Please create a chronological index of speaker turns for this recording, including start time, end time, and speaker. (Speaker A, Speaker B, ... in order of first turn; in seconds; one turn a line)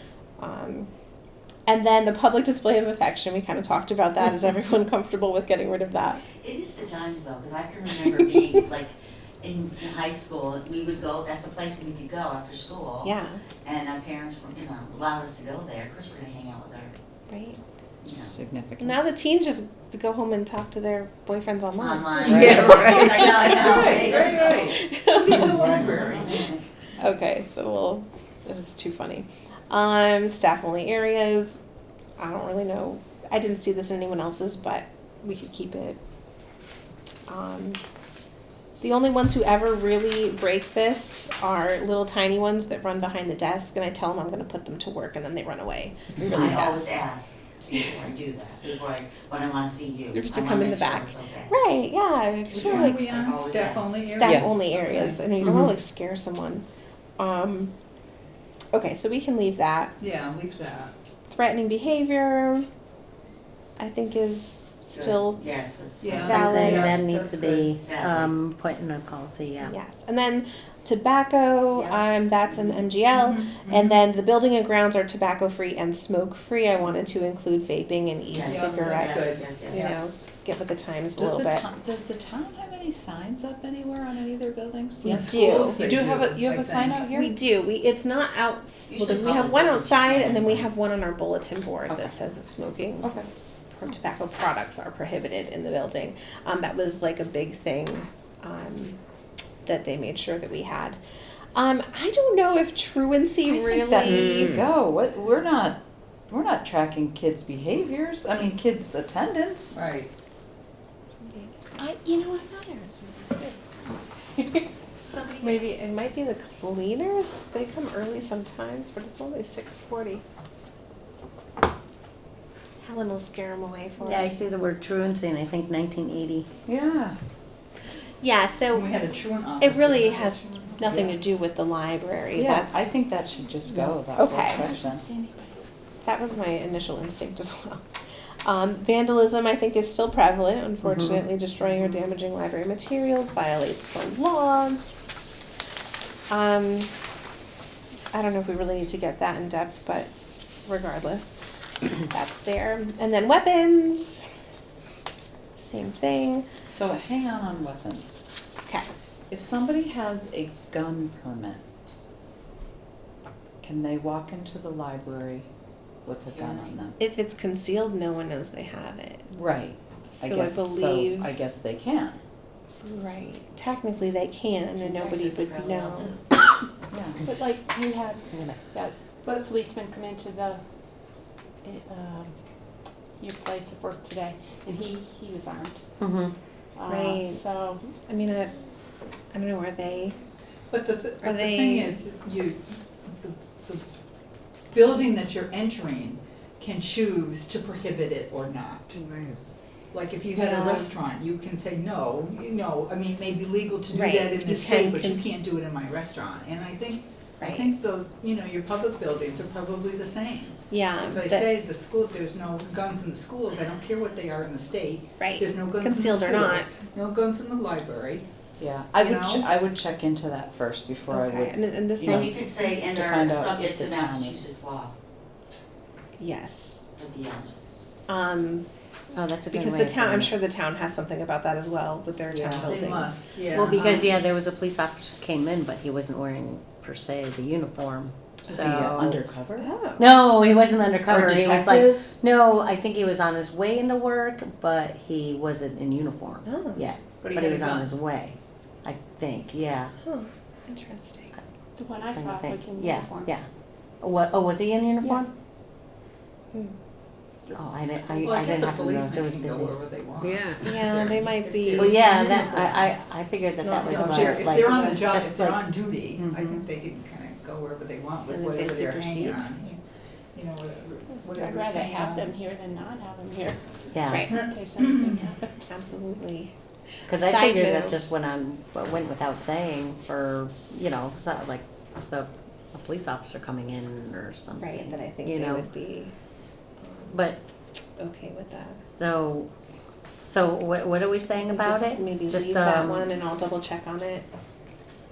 Speaker A: 0.4-0.9
Speaker A: 1.7-6.2
Speaker B: 6.4-13.1
Speaker A: 13.0-13.4
Speaker B: 13.6-16.9
Speaker A: 17.3-17.6
Speaker B: 18.0-18.3
Speaker C: 18.1-19.1
Speaker A: 18.8-31.6
Speaker B: 21.8-24.7
Speaker C: 22.2-22.8
Speaker D: 22.3-26.6
Speaker A: 32.2-36.0
Speaker A: 37.3-37.8
Speaker A: 38.8-47.0
Speaker B: 46.3-51.5
Speaker A: 50.1-53.1
Speaker B: 52.5-54.1
Speaker D: 52.5-55.2
Speaker A: 54.1-56.6
Speaker C: 54.2-54.6
Speaker E: 55.4-55.7
Speaker A: 57.2-57.7
Speaker A: 58.7-59.9
Speaker D: 60.0-60.9
Speaker A: 61.3-62.7
Speaker A: 63.8-65.4
Speaker B: 64.9-67.0
Speaker D: 66.0-67.7
Speaker A: 66.2-66.9
Speaker E: 66.2-69.8
Speaker B: 67.7-68.3
Speaker A: 69.6-81.7
Speaker B: 71.7-72.0
Speaker D: 73.1-74.0
Speaker B: 78.3-79.9
Speaker D: 78.5-80.0
Speaker C: 81.2-87.3
Speaker A: 85.0-85.9
Speaker D: 85.0-87.1
Speaker A: 87.1-93.2
Speaker B: 88.9-90.7
Speaker C: 91.9-92.2
Speaker C: 93.0-93.3
Speaker A: 93.7-99.0
Speaker A: 99.6-101.0
Speaker A: 101.5-104.5
Speaker C: 103.5-109.7
Speaker D: 109.7-110.1
Speaker A: 111.1-113.6
Speaker A: 114.3-114.6
Speaker B: 115.0-115.4
Speaker A: 115.4-120.2
Speaker A: 122.8-124.3
Speaker E: 124.0-126.5
Speaker C: 126.7-127.2
Speaker A: 128.2-128.8
Speaker D: 128.7-131.1
Speaker A: 129.6-132.9
Speaker C: 132.3-135.1
Speaker A: 134.1-134.7
Speaker F: 134.4-135.6
Speaker A: 136.0-137.8
Speaker A: 138.4-144.8
Speaker E: 140.8-141.3
Speaker A: 146.3-146.9
Speaker A: 148.1-150.1
Speaker A: 150.6-151.4
Speaker A: 152.0-154.2
Speaker A: 155.6-156.5
Speaker C: 156.7-158.2
Speaker C: 159.3-161.6
Speaker C: 163.6-165.5
Speaker C: 166.0-166.9
Speaker B: 166.2-166.8
Speaker A: 167.0-169.3
Speaker C: 169.3-172.2
Speaker A: 170.1-171.3
Speaker A: 172.8-176.4
Speaker B: 174.7-176.2
Speaker C: 176.9-177.2
Speaker F: 177.2-180.6
Speaker E: 178.3-178.6
Speaker F: 181.6-182.3
Speaker F: 183.2-185.8
Speaker E: 186.0-186.3
Speaker F: 186.8-187.8
Speaker A: 186.9-188.5
Speaker A: 189.3-190.1
Speaker D: 190.7-193.8
Speaker A: 191.2-192.0
Speaker D: 194.7-199.0
Speaker D: 199.9-218.2
Speaker A: 200.3-200.9
Speaker A: 203.9-205.2
Speaker A: 207.4-207.7
Speaker A: 210.7-211.5
Speaker A: 215.2-216.7
Speaker C: 218.6-224.5
Speaker D: 219.0-219.5
Speaker A: 221.1-222.4
Speaker B: 222.0-224.9
Speaker A: 226.2-226.9
Speaker B: 226.9-227.5
Speaker A: 228.1-228.7
Speaker E: 229.1-230.4
Speaker A: 229.5-233.2
Speaker C: 232.3-232.7
Speaker D: 232.6-234.0
Speaker E: 233.5-239.2
Speaker C: 238.4-239.7
Speaker A: 239.6-240.1
Speaker E: 240.0-249.9
Speaker C: 241.1-242.0
Speaker A: 246.4-246.8
Speaker D: 247.2-247.8
Speaker A: 250.0-251.3
Speaker F: 251.8-253.3
Speaker E: 252.0-253.5
Speaker E: 254.0-255.3
Speaker D: 257.5-262.9
Speaker E: 257.5-259.7
Speaker A: 260.6-262.3
Speaker E: 261.8-265.6
Speaker A: 263.6-265.1
Speaker D: 263.8-269.8
Speaker A: 268.3-269.4
Speaker D: 270.3-272.3
Speaker F: 271.2-275.6
Speaker E: 273.9-274.3
Speaker A: 274.1-274.3
Speaker D: 274.3-275.2
Speaker A: 275.6-276.5
Speaker E: 277.1-285.7
Speaker A: 277.1-278.0
Speaker A: 284.6-286.1
Speaker A: 286.8-287.1
Speaker E: 287.1-287.4
Speaker A: 288.0-288.8
Speaker E: 288.6-289.5
Speaker E: 290.3-293.1
Speaker A: 291.4-294.2